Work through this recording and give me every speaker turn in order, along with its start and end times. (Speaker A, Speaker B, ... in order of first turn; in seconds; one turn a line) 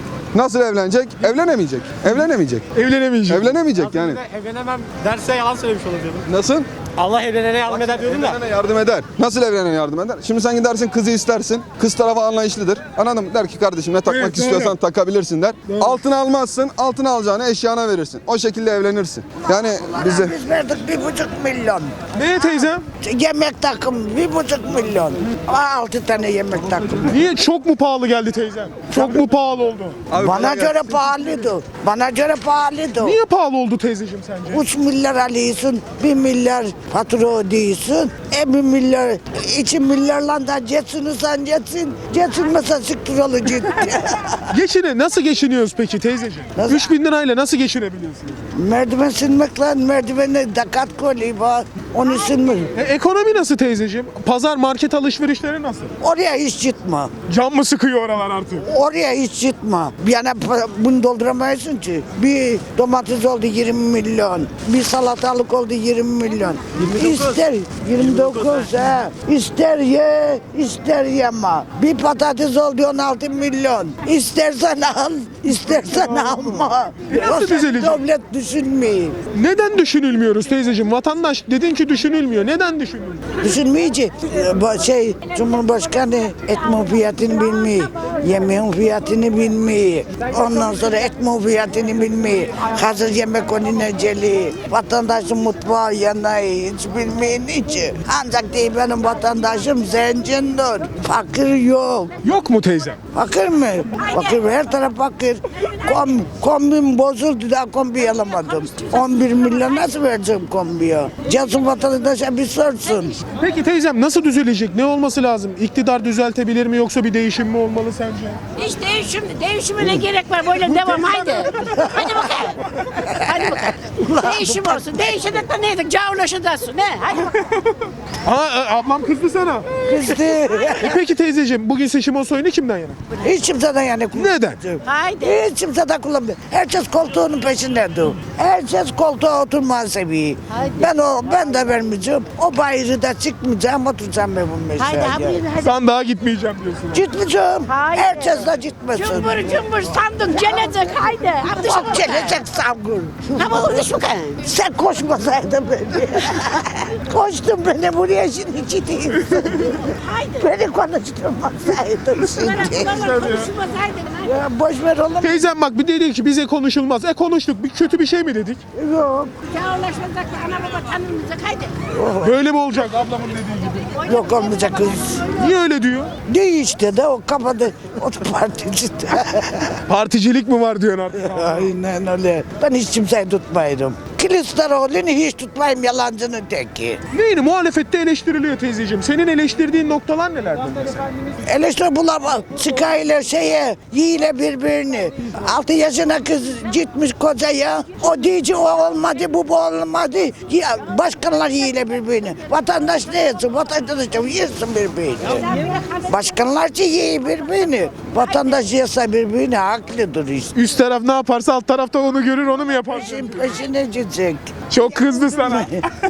Speaker A: 0.3-2.7
Speaker B: 2.7-3.5
Speaker A: 3.3-4.2
Speaker C: 3.9-6.2
Speaker A: 6.3-6.7
Speaker C: 7.0-8.3
Speaker A: 7.6-20.4
Speaker B: 14.1-14.8
Speaker B: 15.7-16.0
Speaker D: 19.5-22.0
Speaker B: 22.1-22.8
Speaker D: 22.6-27.2
Speaker B: 27.1-30.0
Speaker D: 28.9-29.2
Speaker A: 30.1-31.0
Speaker D: 30.2-33.2
Speaker B: 33.0-34.7
Speaker D: 34.5-44.4
Speaker B: 44.5-48.4
Speaker D: 46.6-46.9
Speaker D: 48.5-52.7
Speaker B: 52.7-55.9
Speaker D: 56.0-57.1
Speaker B: 57.3-58.7
Speaker D: 58.6-79.2
Speaker B: 77.1-78.0
Speaker B: 79.3-83.2
Speaker D: 83.4-102.1
Speaker B: 102.2-103.0
Speaker D: 103.1-113.2
Speaker B: 113.4-118.4
Speaker E: 118.6-127.3
Speaker B: 120.8-121.4
Speaker D: 124.0-124.8
Speaker B: 128.2-129.8
Speaker D: 129.9-131.0
Speaker B: 130.8-133.0
Speaker D: 133.2-145.4
Speaker B: 134.1-134.6
Speaker E: 134.8-135.4
Speaker E: 144.8-145.8
Speaker B: 145.6-147.1
Speaker D: 146.9-149.6
Speaker E: 147.7-152.4
Speaker D: 151.6-153.9
Speaker E: 153.3-154.4
Speaker D: 154.4-163.0
Speaker E: 159.9-160.4
Speaker E: 162.3-164.3
Speaker B: 162.9-163.5
Speaker D: 164.2-165.5
Speaker B: 165.2-168.6
Speaker D: 168.8-169.4
Speaker E: 169.5-171.9
Speaker D: 171.9-172.3
Speaker B: 172.2-174.0
Speaker D: 174.1-175.3
Speaker B: 175.4-176.1
Speaker D: 176.3-179.8
Speaker B: 179.9-181.7
Speaker D: 181.2-187.0
Speaker B: 187.1-191.0
Speaker D: 191.5-210.5
Speaker B: 210.5-213.6
Speaker D: 212.8-214.5
Speaker B: 214.7-215.8
Speaker D: 215.1-215.8